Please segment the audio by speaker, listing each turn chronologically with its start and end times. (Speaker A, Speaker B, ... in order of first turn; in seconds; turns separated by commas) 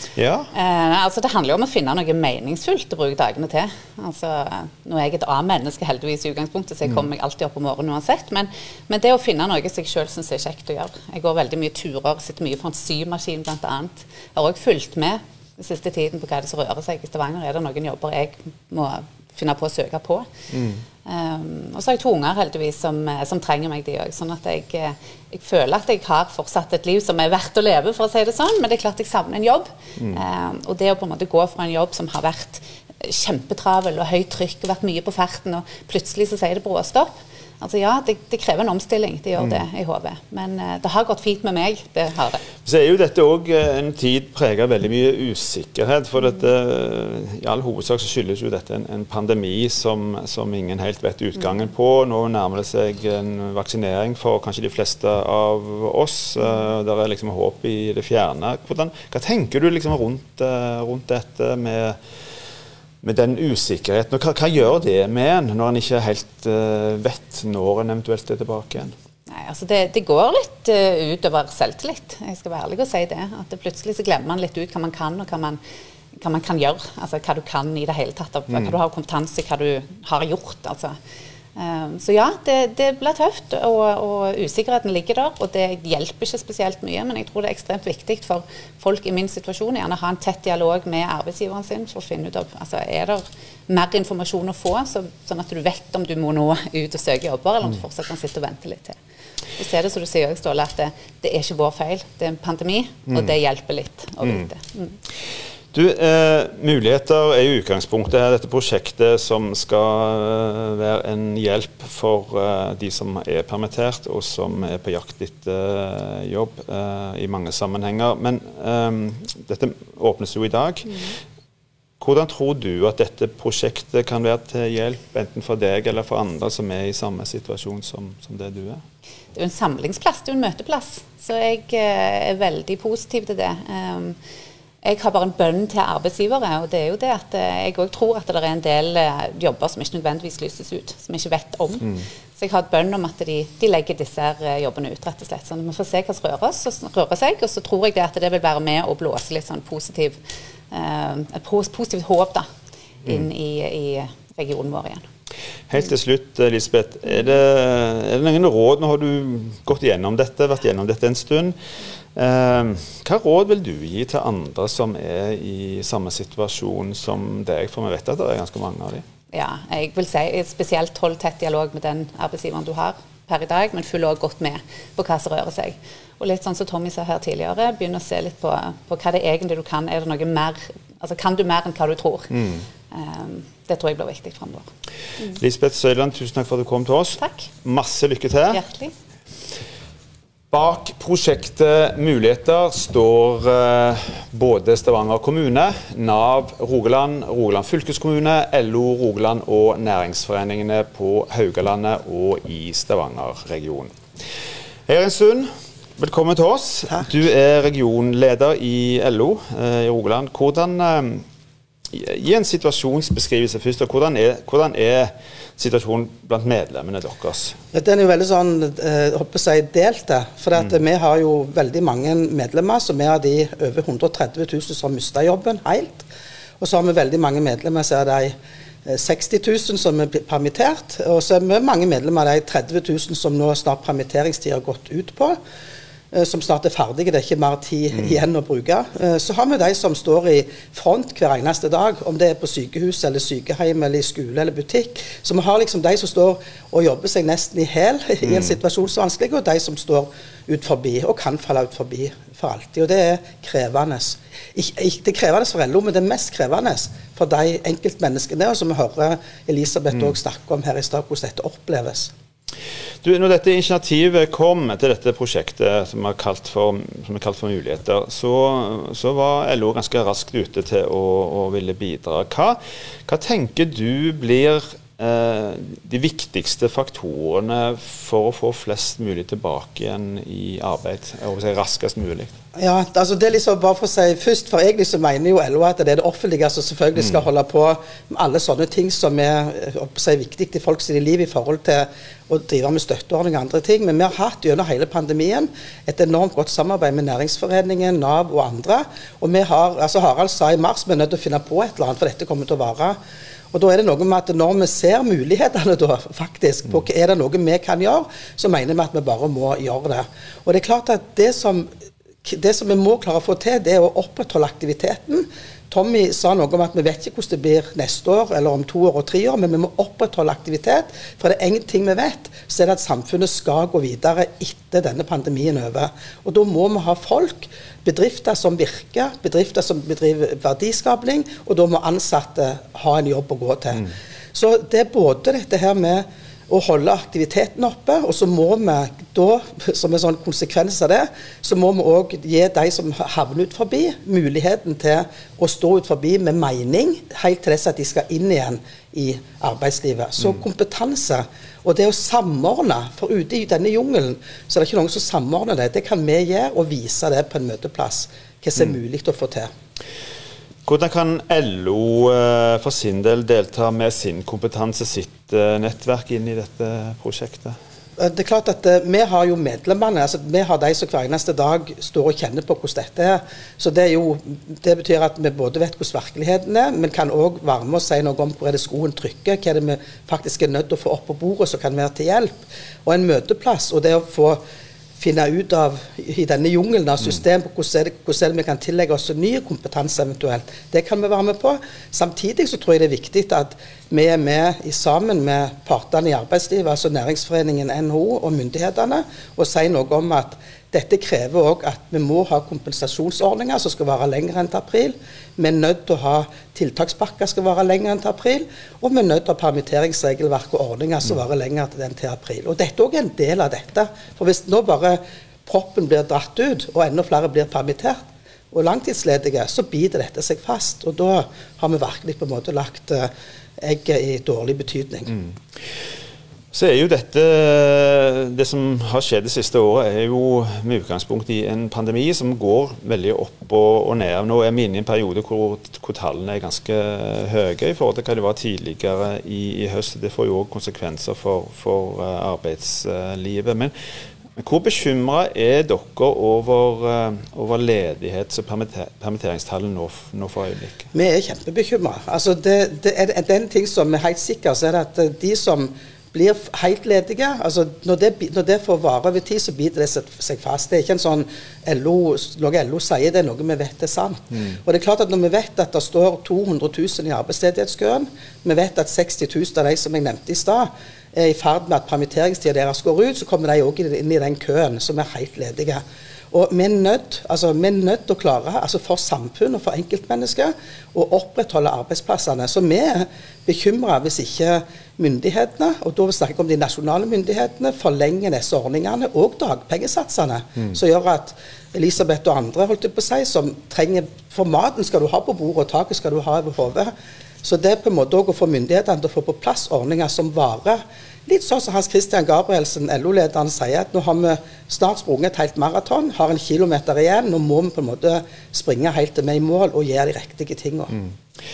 Speaker A: 0.1-0.5, Speaker B: 0.5-20.3, Speaker A: 20.5-20.8, Speaker B: 21.1-42.4, Speaker A: 42.6-62.0, Speaker A: 63.0-68.9, Speaker B: 69.3-75.6, Speaker B: 76.2-81.0, Speaker A: 78.5-78.8, Speaker B: 81.6-99.0, Speaker B: 99.6-105.0, Speaker A: 105.7-121.0, Speaker A: 122.0-128.8, Speaker B: 129.3-134.2, Speaker B: 134.8-150.2, Speaker B: 150.7-152.5, Speaker B: 153.1-155.0, Speaker A: 155.7-161.6, Speaker A: 162.2-169.0, Speaker B: 169.3-182.3, Speaker A: 182.3-182.7, Speaker B: 182.9-184.7, Speaker A: 185.3-188.6, Speaker B: 187.2-187.5, Speaker B: 188.5-188.9, Speaker A: 190.5-203.9, Speaker A: 204.9-211.2, Speaker A: 211.9-217.6, Speaker C: 217.7-226.1, Speaker C: 226.6-235.4, Speaker C: 236.1-262.1, Speaker A: 263.0-282.3, Speaker C: 282.6-303.0, Speaker C: 303.5-311.7, Speaker C: 312.2-359.5, Speaker A: 360.7-367.6, Speaker C: 368.0-384.4, Speaker C: 385.0-425.1, Speaker A: 426.5-443.7, Speaker A: 444.4-450.9, Speaker C: 450.9-510.9